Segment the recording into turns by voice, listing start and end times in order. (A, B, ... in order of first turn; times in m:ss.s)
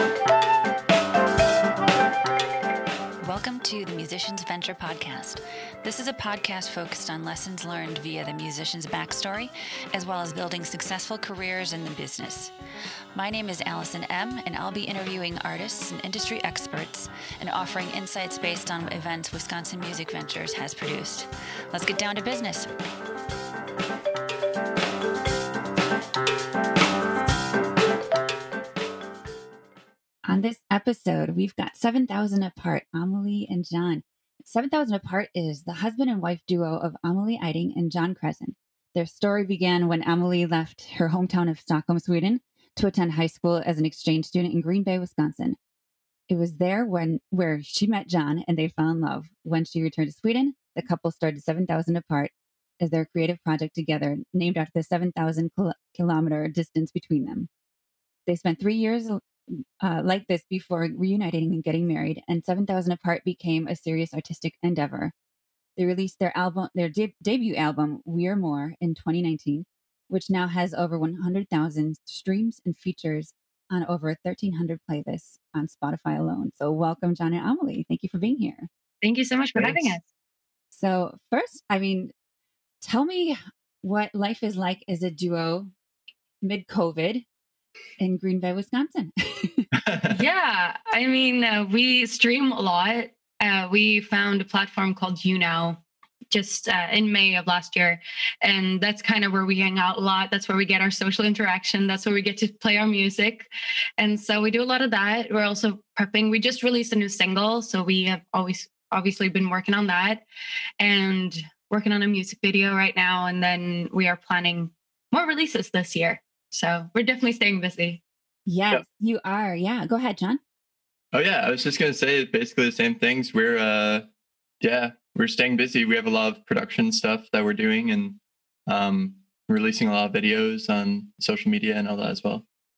0:03.2-0:12.5 A
0:13.1-0:22.7 A
0:30.2-0:45.6 A
0:46.3-0:57.5 A
0:58.2-1:05.1 A
1:05.8-1:18.7 A
1:19.0-1:20.0 B
1:19.5-1:20.0 C
1:20.7-1:22.1 A
1:22.8-1:25.7 A
1:26.4-1:27.2 A
1:28.0-1:29.7 A
1:29.7-1:30.2 C
1:30.1-1:50.2 B
1:50.8-1:58.0 B
1:58.5-2:00.4 A
2:01.1-2:04.1 C
2:04.6-2:12.4 C